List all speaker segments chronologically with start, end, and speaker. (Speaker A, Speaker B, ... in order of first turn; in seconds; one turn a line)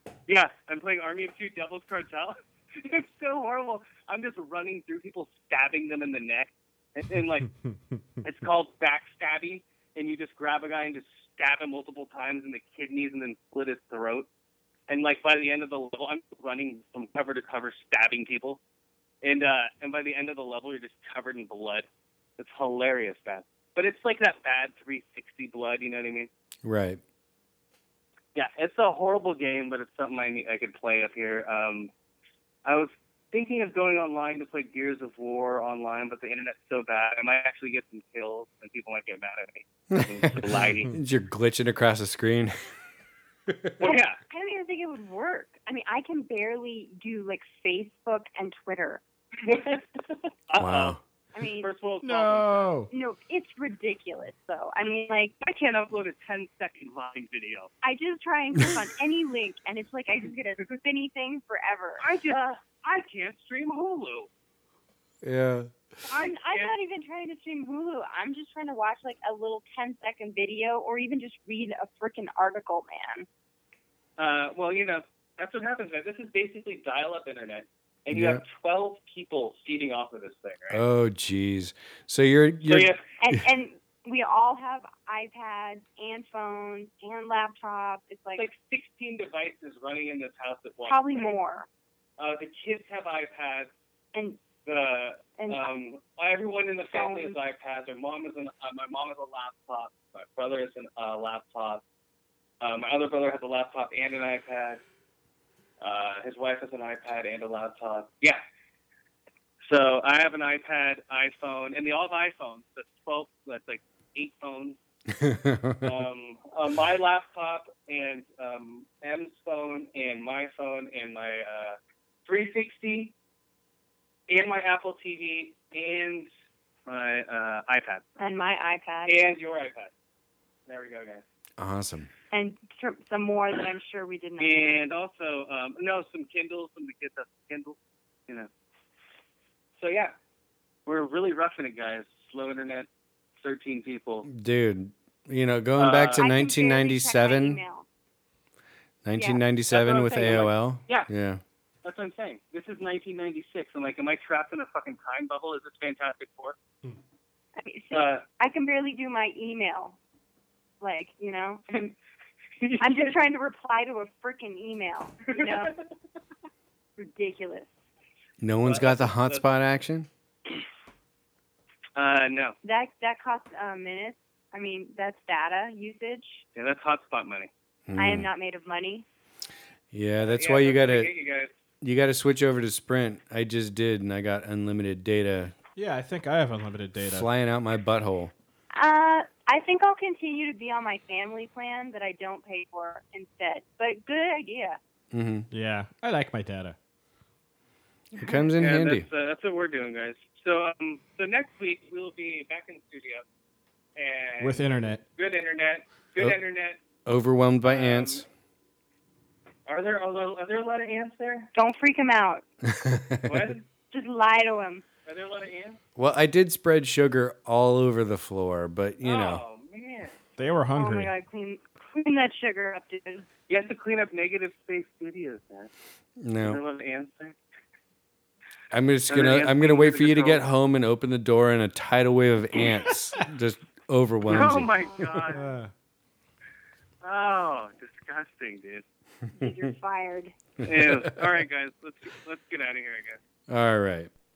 Speaker A: 0.3-7.5
Speaker A: 8.2-14.3
Speaker A: 14.9-18.6
Speaker A: 19.2-21.9
Speaker A: 22.4-26.3
Speaker B: 26.6-27.0
Speaker A: 28.4-31.9
Speaker A: 32.6-40.9
Speaker B: 39.9-42.6
Speaker B: 43.5-43.8
Speaker A: 43.8-44.2
Speaker C: 43.8-49.0
Speaker A: 49.4-49.8
Speaker A: 50.5-51.0
Speaker B: 50.6-51.0
Speaker C: 51.4-51.7
Speaker A: 51.6-52.7
Speaker D: 52.0-52.9
Speaker C: 52.9-55.3
Speaker A: 55.4-57.7
Speaker C: 57.8-62.2
Speaker A: 62.0-64.3
Speaker B: 65.2-65.7
Speaker C: 66.1-73.3
Speaker A: 74.2-80.8
Speaker B: 78.1-78.4
Speaker B: 80.7-83.4
Speaker A: 82.7-83.0
Speaker C: 83.2-88.5
Speaker A: 88.4-91.3
Speaker C: 90.9-91.7
Speaker A: 92.2-93.7
Speaker A: 94.7-101.8
Speaker C: 95.4-95.7
Speaker C: 96.9-97.4
Speaker A: 102.6-104.8
Speaker A: 105.8-108.4
Speaker A: 109.7-114.8
Speaker B: 115.1-115.9
Speaker A: 115.8-123.1
Speaker A: 124.3-126.3
Speaker A: 126.9-128.0
Speaker C: 128.2-129.2
Speaker A: 129.1-129.9
Speaker A: 130.7-131.2
Speaker B: 131.6-132.1
Speaker C: 132.3-134.6
Speaker A: 134.4-137.8
Speaker A: 139.8-140.1
Speaker A: 140.9-142.9
Speaker A: 143.4-144.3
Speaker B: 144.3-147.6
Speaker A: 145.8-146.2
Speaker C: 146.2-147.9
Speaker B: 149.0-151.4
Speaker C: 149.2-149.4
Speaker A: 149.7-151.1
Speaker A: 151.8-156.6
Speaker C: 157.6-160.0
Speaker A: 157.9-158.2
Speaker C: 160.8-161.9
Speaker A: 162.6-163.0
Speaker C: 162.8-165.8
Speaker A: 165.4-165.8
Speaker C: 167.0-167.7
Speaker B: 168.4-170.1
Speaker A: 168.7-169.4
Speaker A: 172.0-172.6
Speaker C: 172.6-176.4
Speaker A: 176.6-177.5
Speaker B: 177.9-178.3
Speaker C: 178.0-179.1
Speaker B: 179.9-181.1
Speaker A: 180.2-181.5
Speaker B: 181.8-185.5
Speaker D: 185.8-187.3
Speaker B: 187.0-188.3
Speaker C: 188.7-194.8
Speaker B: 195.1-195.5
Speaker D: 195.5-196.8
Speaker B: 198.2-199.1
Speaker A: 198.5-203.2
Speaker A: 204.0-206.8
Speaker D: 204.4-205.0
Speaker B: 207.1-208.2
Speaker A: 207.7-208.2
Speaker A: 209.7-211.5
Speaker C: 211.6-212.4
Speaker B: 212.6-213.5
Speaker A: 213.2-213.7
Speaker C: 213.9-214.8
Speaker A: 215.1-215.8
Speaker B: 216.0-219.4
Speaker A: 219.0-220.2
Speaker D: 220.4-221.1
Speaker C: 220.8-223.3
Speaker A: 223.5-225.7
Speaker B: 226.2-226.6
Speaker A: 226.4-227.4
Speaker B: 228.7-235.3
Speaker A: 229.1-230.5
Speaker A: 234.3-235.5
Speaker D: 235.3-235.7
Speaker A: 237.0-238.8
Speaker C: 239.3-240.3
Speaker B: 239.4-239.7
Speaker B: 240.6-241.3
Speaker A: 240.6-243.2
Speaker B: 243.5-244.1